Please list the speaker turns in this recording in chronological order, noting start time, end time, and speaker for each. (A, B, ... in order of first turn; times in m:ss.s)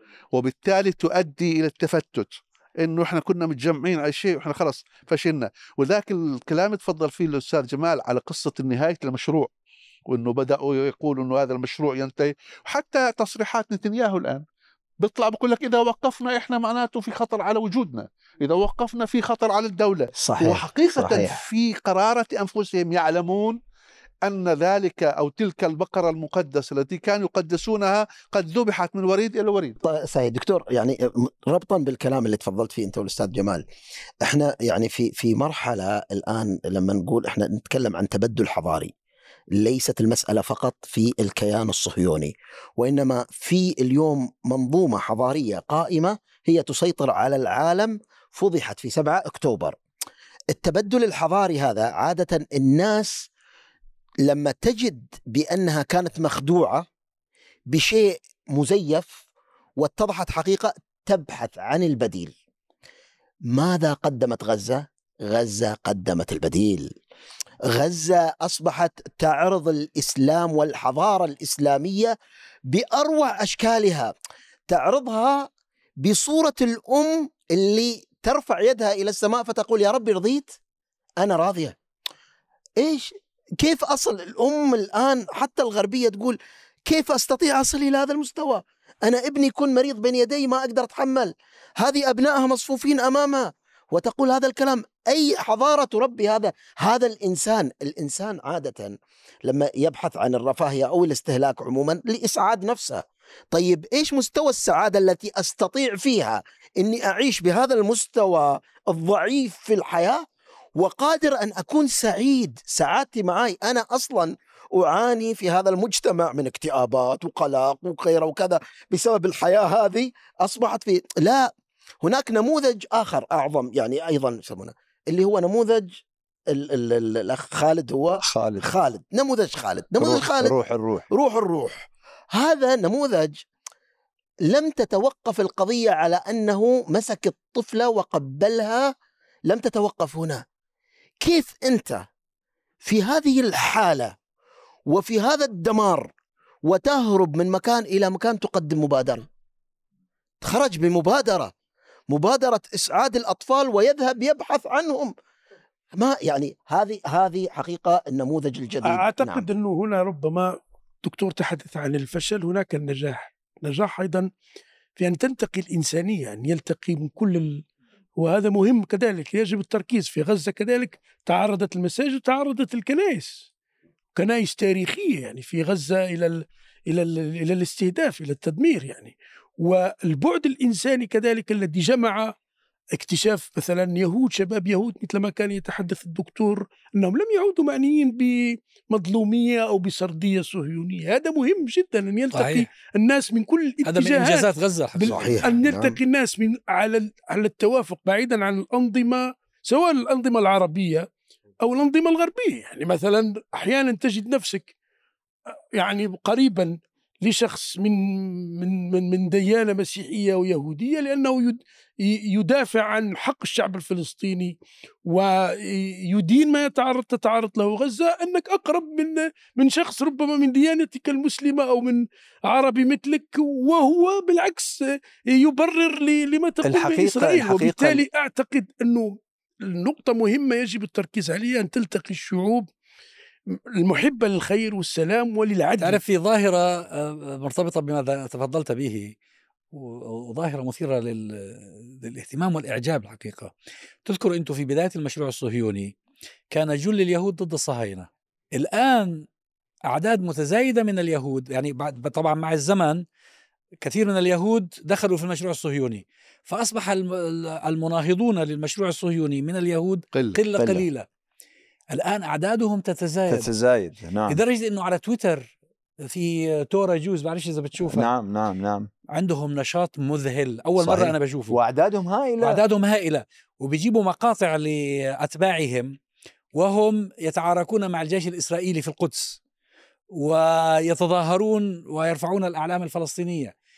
0:00.3-0:09.5 A
0:10.1-0:14.4 A
0:15.0-0:23.6 A
0:20.2-0:21.4 B
0:24.2-0:29.8 A
0:29.8-0:33.6 B
0:34.2-0:38.9 B
0:39.5-0:49.8 B
0:50.5-0:53.2 B
0:54.2-0:56.8 B
0:57.7-0:59.2 B
0:59.8-1:02.3 B
1:03.5-1:06.9 B
1:07.7-1:12.1 B
1:12.7-1:14.1 B
1:14.7-1:15.5 B
1:16.0-1:20.5 B
1:21.2-1:21.8 B
1:22.8-1:50.2 B
1:50.8-2:01.5 B
2:02.0-2:10.5 B
2:08.2-2:08.7 C
2:10.0-2:11.1 C
2:11.1-2:13.4 B
2:14.5-2:18.9 B
2:19.5-2:20.4 B
2:21.2-2:22.0 B
2:22.8-2:24.1 B
2:24.9-2:26.1 B
2:26.6-2:29.3 B
2:30.4-2:31.5 B
2:32.1-2:35.1 B
2:36.0-2:39.4 B
2:38.8-2:40.5 D
2:41.0-2:44.3 D
2:45.0-2:47.6 D
2:48.2-2:53.4 D
2:54.2-3:02.3 D
3:02.9-3:21.1 D
3:12.3-3:12.6 E
3:13.8-3:15.4 E
3:15.0-3:16.0 B
3:21.6-3:24.7 D
3:25.8-3:52.7 D
3:46.6-3:48.0 C
3:53.8-3:56.0 D
3:55.8-3:59.1 E
3:59.7-4:03.5 E
4:04.0-4:06.0 E
4:06.5-4:09.3 E
4:09.9-4:13.0 E
4:13.8-4:21.0 E
4:20.1-4:20.4 A
4:20.6-4:20.8 C
4:21.9-4:23.5 E
4:23.3-4:24.4 C
4:24.3-4:25.5 E
4:26.0-4:28.1 E
4:27.8-4:28.9 C
4:29.1-4:31.6 E
4:30.8-4:32.6 C
4:32.4-4:36.0 E
4:36.5-4:39.4 E
4:40.1-4:43.5 E